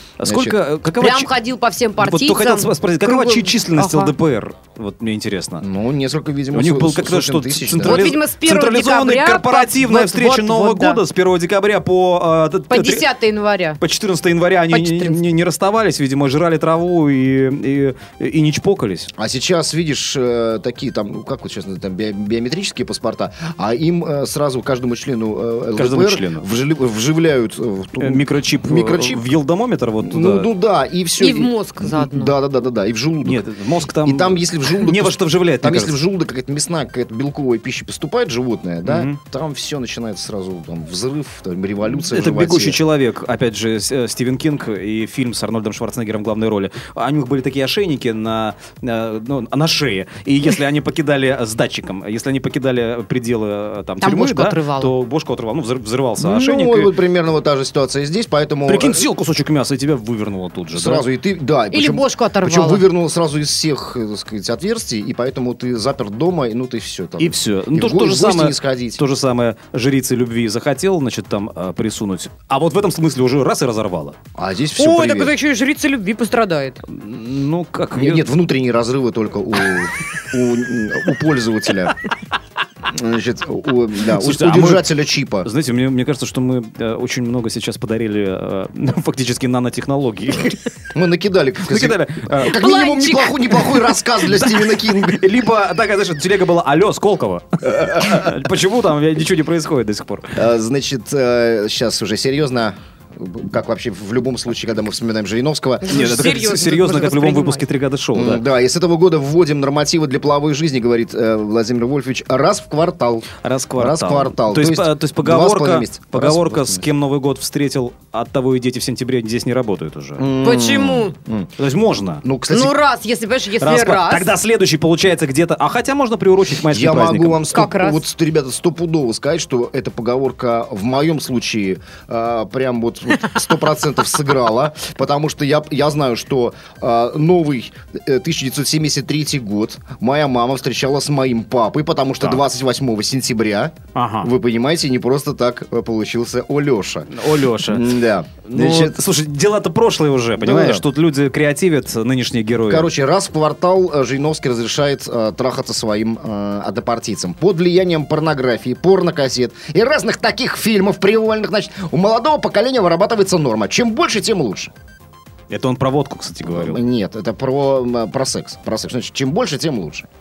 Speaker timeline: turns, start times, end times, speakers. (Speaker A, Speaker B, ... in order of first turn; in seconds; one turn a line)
Speaker A: 0.2-1.3
Speaker B: 0.2-0.6
Speaker C: 0.9-4.1
Speaker A: 2.0-5.7
Speaker B: 5.6-8.0
Speaker A: 6.5-13.1
Speaker C: 7.8-11.0
Speaker C: 12.7-13.8
Speaker A: 13.8-19.1
Speaker C: 14.7-15.2
Speaker B: 19.1-29.3
Speaker A: 25.8-26.5
Speaker A: 28.0-30.5
Speaker B: 30.0-33.4
Speaker C: 31.2-32.4
Speaker A: 33.2-36.0
Speaker B: 34.0-42.8
Speaker A: 38.8-39.2
Speaker A: 41.9-56.9
Speaker C: 54.0-54.9
Speaker B: 56.2-59.0
Speaker A: 58.7-61.0
Speaker B: 60.7-69.0
Speaker C: 61.7-62.8
Speaker A: 67.2-74.2
Speaker B: 74.3-75.3
Speaker C: 74.8-76.8
Speaker A: 76.9-78.3
Speaker B: 78.0-82.0
Speaker B: 82.8-85.5
Speaker A: 84.0-84.8
Speaker A: 85.4-90.6
Speaker B: 90.9-95.3
Speaker A: 91.6-93.2
Speaker C: 92.6-93.5
Speaker A: 94.2-100.4
Speaker B: 100.3-106.0
Speaker C: 105.8-107.6
Speaker A: 105.9-108.4
Speaker B: 108.1-116.8
Speaker A: 113.4-120.3
Speaker B: 120.2-121.5
Speaker C: 120.4-121.1
Speaker A: 121.6-122.2
Speaker B: 122.2-122.8
Speaker C: 122.5-124.3
Speaker A: 123.6-127.5
Speaker B: 126.7-149.0
Speaker C: 127.5-128.0
Speaker A: 143.9-144.3
Speaker A: 147.1-152.9
Speaker B: 150.4-150.8
Speaker B: 152.7-164.7
Speaker A: 165.5-166.8
Speaker B: 166.5-170.1